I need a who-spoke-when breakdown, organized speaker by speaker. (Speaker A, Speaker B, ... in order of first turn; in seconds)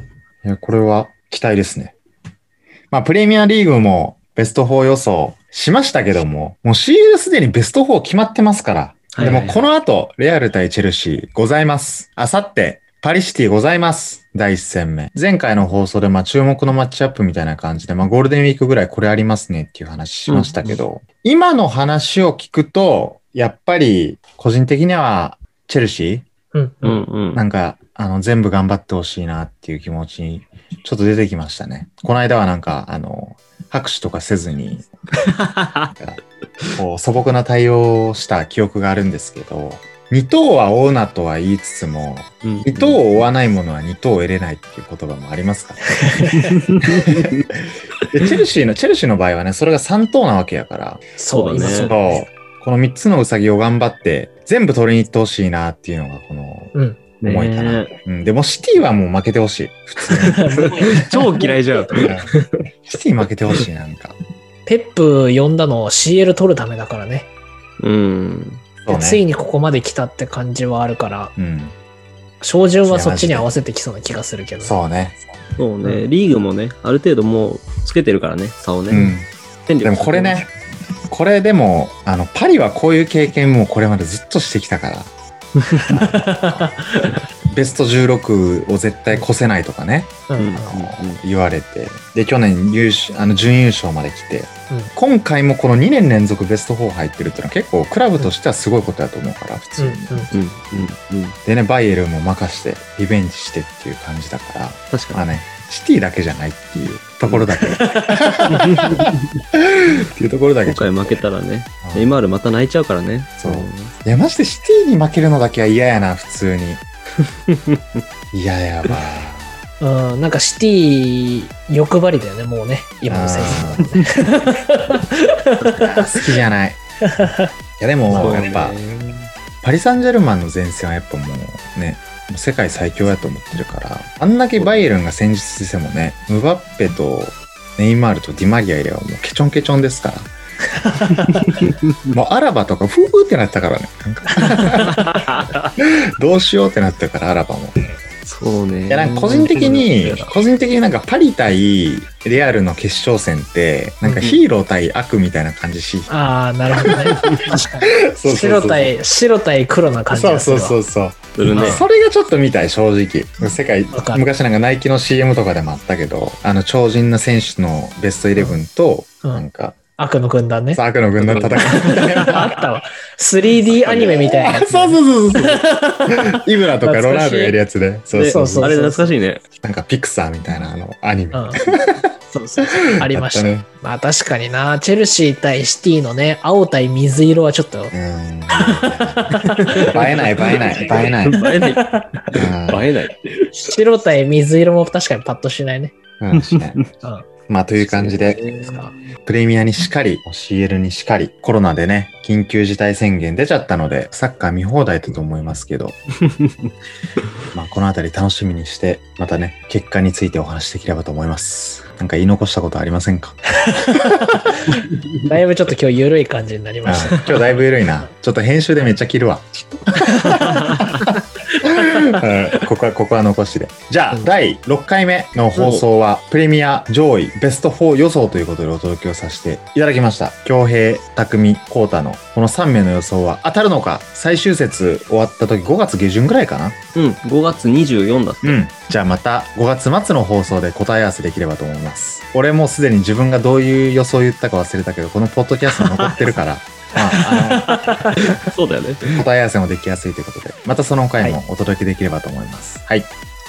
Speaker A: 0.4-1.9, 2.9-26.2, 27.3-34.9, 35.9-36.2, 36.7-46.2, 46.9-47.3, 48.1-56.7, 57.2-61.0, 62.0-62.3, 62.8-64.2, 68.8-69.2, 71.4-71.7, 72.8-73.5, 74.6-75.2, 78.9-79.3, 79.8-80.5, 81.1-85.1, 85.9-86.7, 87.5-100.3, 101.4-111.3, 111.8-112.1, 113.4-116.8, 118.3-119.6, 123.1-123.8, 125.7-126.8, 127.8-128.8, 129.6-140.3, 142.1-145.0, 145.8-147.7, 148.9-156.1, 156.8-158.9, 160.1-169.8, 170.7-172.5, 174.3-178.7, 179.6-182.1, 182.6-183.7, 187.9-191.4, 192.3-192.9, 196.2-196.8, 197.5-198.5, 199.2-205.9, 207.5-213.4, 213.9-214.5, 216.8-236.8, 238.4-247.8, 249.1-253.1
Speaker B: 9.1-9.6, 20.3-20.8, 26.8-27.4, 35.2-35.9, 42.4-43.0, 46.3-47.5, 51.3-51.9, 57.2-57.9, 60.1-62.6, 67.8-68.6, 75.6-79.1, 79.7-80.4, 85.7-86.0, 90.4-91.2, 100.3-101.4, 104.9-105.2, 108.5-109.4, 110.7-113.9, 117.5-118.0, 128.1-129.3, 141.3-142.1, 144.8-145.7, 148.2-150.3, 157.2-157.6, 161.4-161.8, 171.2-172.4, 173.8-174.5, 178.1-179.4, 189.4-193.7, 196.4-196.8, 197.9-199.1, 206.2-206.7, 214.7-215.1, 225.6-225.8, 236.9-238.6, 245.7-246.2, 248.2-249.2
Speaker C: 26.5-27.0, 46.0-46.5, 51.2-52.2, 56.7-57.0, 60.2-62.1, 64.7-67.3, 68.9-71.3, 72.4-74.8, 85.7-87.2, 90.3-90.8, 99.8-100.3, 107.7-108.5, 119.8-126.2, 127.0-127.5, 140.8-141.4, 144.3-144.9, 154.0-154.4, 156.1-160.8, 161.5-161.8, 163.9-164.2, 170.0-170.8, 171.6-177.6, 178.2-179.2, 181.3-181.6, 182.3-187.9, 188.5-192.1, 193.6-195.9, 198.5-198.9, 213.6-217.7, 220.1-220.8, 221.5-222.1, 247.6-248.3